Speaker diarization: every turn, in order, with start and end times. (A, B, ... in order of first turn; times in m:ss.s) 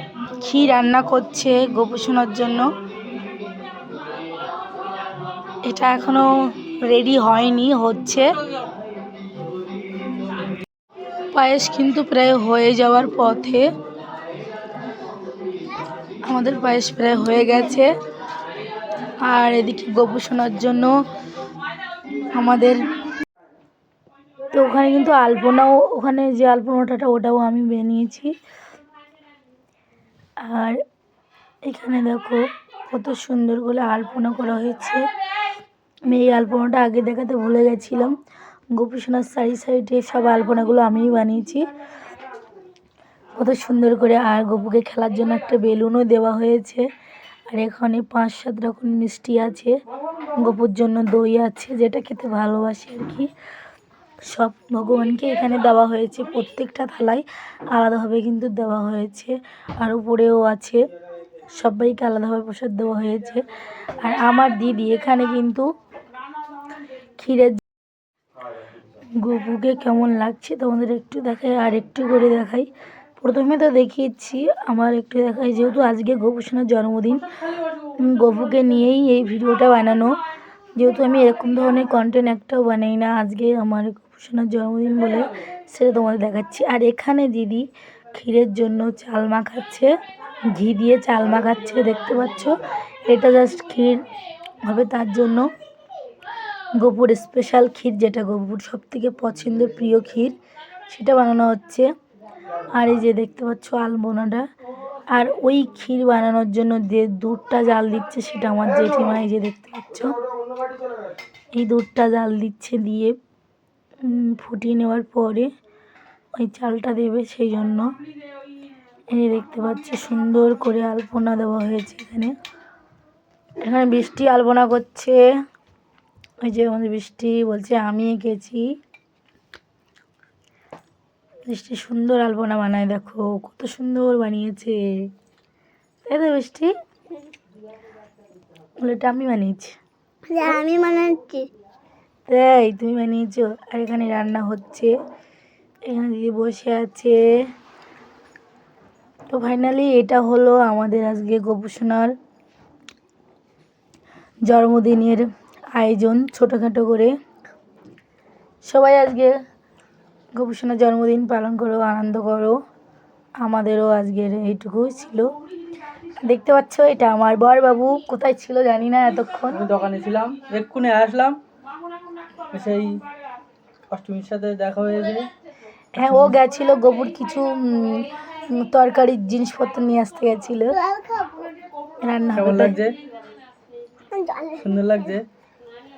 0:00.4-0:02.7 A
0:05.6-0:08.3 A
0:11.3-0:13.7 A
0:16.2-0:17.9 A
0:19.2-0:21.0 A
0:22.3-0:22.9 A
0:24.5-0:28.3 A
0:30.4-0:30.8 A
0:31.6-0:35.0 A
0:36.1-0:38.1 A
0:38.7-0:41.6 A
0:43.4-0:46.8 A
0:47.5-0:49.7 A
0:50.4-0:53.3 A
0:54.2-1:00.8 A
1:01.6-1:03.4 A
1:04.0-1:05.7 A
1:07.2-1:07.6 A
1:09.2-1:17.3 A
1:18.0-1:20.2 A
1:20.8-1:29.9 A
1:30.5-1:34.0 A
1:34.6-1:35.5 A
1:36.7-1:40.4 A
1:40.9-1:41.9 A
1:42.7-1:44.5 A
1:45.1-1:50.2 A
1:51.5-1:53.1 A
1:54.0-1:55.5 A
1:56.4-1:57.9 A
1:59.1-2:02.3 A
2:03.6-2:05.2 A
2:06.4-2:08.6 A
2:11.4-2:15.0 A
2:16.0-2:16.7 A
2:18.8-2:19.8 A
2:20.3-2:21.5 B
2:22.3-2:24.9 A
2:25.8-2:27.5 A
2:29.3-2:32.1 A
2:34.5-2:37.1 A
2:38.6-2:39.4 A
2:40.3-2:42.6 A
2:43.4-2:45.3 A
2:46.2-2:49.6 A
2:49.5-2:51.4 C
2:52.5-2:53.0 C
2:53.9-2:55.3 C
2:56.0-3:00.8 A
2:56.0-2:56.4 C
3:00.7-3:01.5 B
3:02.0-3:02.8 A
3:02.3-3:03.0 C
3:04.1-3:04.6 B
3:04.6-3:05.2 C